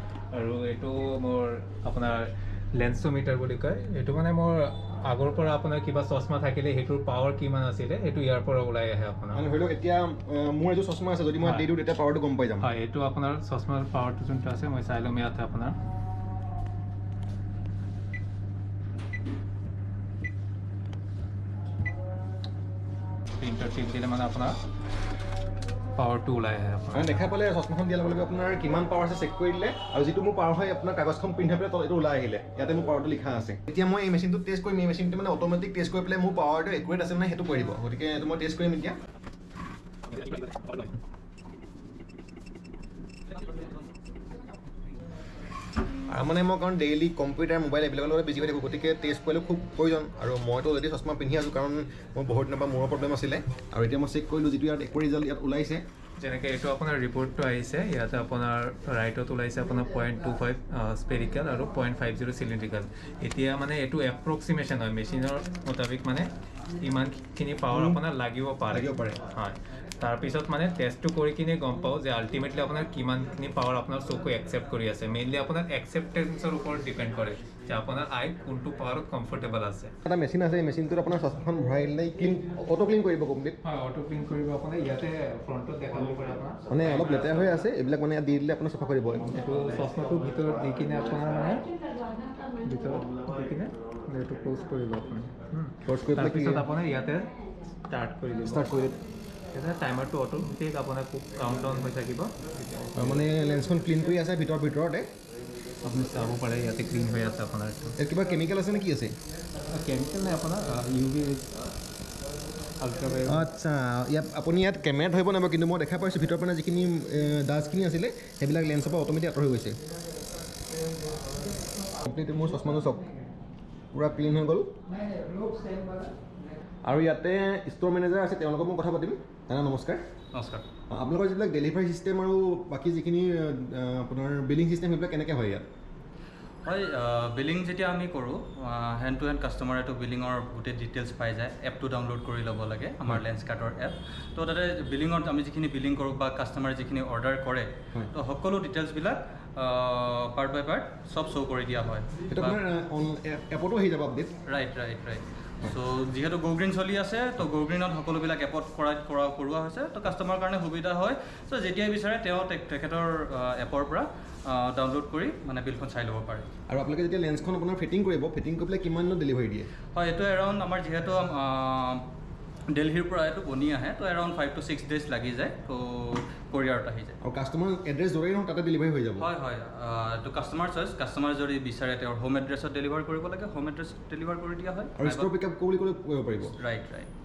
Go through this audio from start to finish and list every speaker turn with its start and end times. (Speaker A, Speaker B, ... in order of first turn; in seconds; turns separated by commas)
Speaker A: 0.3-9.4, Speaker B: 9.3-12.7, Speaker A: 11.4-11.7, Speaker A: 12.6-15.8, Speaker A: 23.4-24.6, Speaker A: 25.9-27.3, Speaker B: 26.9-39.0, Speaker A: 40.1-40.9, Speaker B: 46.1-55.8, Speaker A: 56.2-66.3, Speaker A: 66.8-79.9, Speaker B: 67.7-68.0, Speaker B: 68.7-69.2, Speaker B: 80.0-83.6, Speaker A: 83.6-87.6, Speaker B: 86.7-89.3, Speaker A: 89.2-91.7, Speaker A: 92.6-97.3, Speaker B: 95.8-96.7, Speaker A: 97.9-98.7, Speaker B: 98.4-99.0, Speaker A: 99.5-103.0, Speaker B: 103.0-105.1, Speaker A: 105.8-108.0, Speaker B: 108.0-109.2, Speaker A: 109.6-111.6, Speaker A: 112.8-113.5, Speaker B: 113.3-119.8, Speaker B: 122.0-123.1, Speaker B: 123.9-124.7, Speaker A: 125.0-126.1, Speaker B: 126.8-130.0, Speaker C: 130.3-130.7, Speaker B: 130.9-135.7, Speaker C: 136.7-152.6, Speaker B: 152.3-154.3, Speaker C: 154.5-166.5, Speaker B: 166.7-169.7, Speaker C: 169.9-172.1, Speaker C: 172.7-177.2, Speaker B: 177.2-179.3, Speaker C: 179.2-185.3, Speaker B: 185.0-186.6, Speaker C: 186.6-187.1